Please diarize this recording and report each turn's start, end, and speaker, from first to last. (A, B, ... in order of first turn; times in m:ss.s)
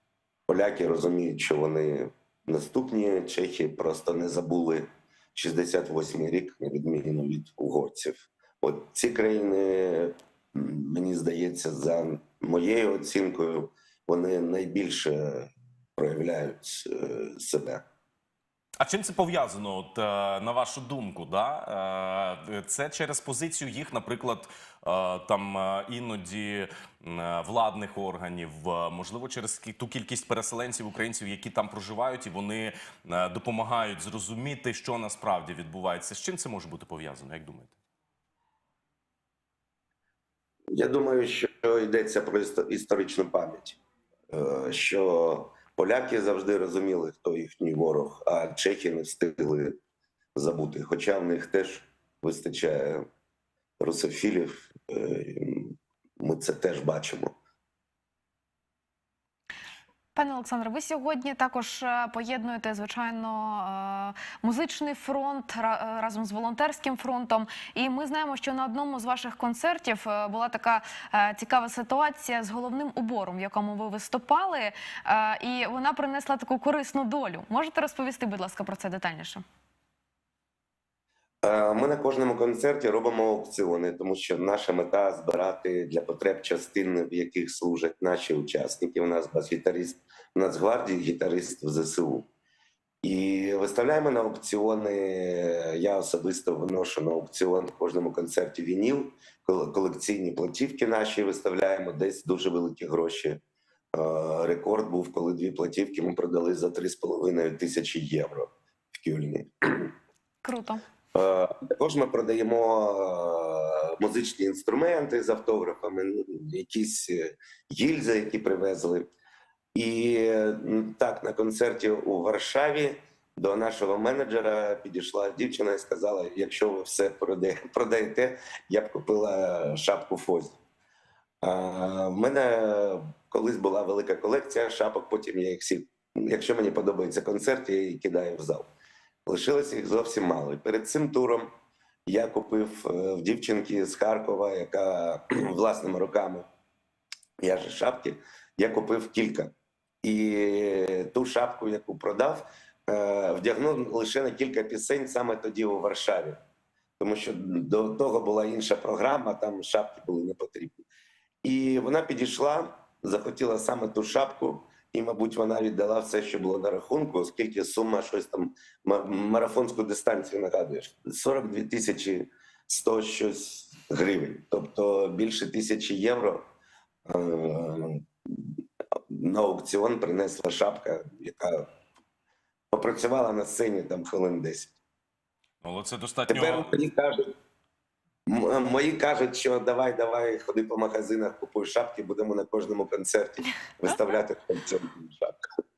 0:00.5-0:17.8 A
0:18.8-0:37.7 B
0:40.7-0:43.8 A
0:44.3-0:49.8 A
0:50.3-0:53.0 A
0:53.8-0:57.3 A
1:00.1-1:19.4 C
1:21.4-1:32.3 A
1:33.0-1:43.4 A
1:43.9-1:49.9 A
1:50.4-1:50.8 C
1:51.1-1:59.1 A
1:59.7-2:10.6 A
2:11.4-2:18.7 A
2:19.2-2:21.5 A
2:22.1-2:26.5 A
2:27.4-2:36.4 A
2:37.0-2:40.8 A
2:41.4-2:56.5 A
2:57.0-3:01.7 A
3:02.7-3:04.8 A
3:05.6-3:06.7 B
3:06.3-3:07.3 A
3:08.2-3:15.4 A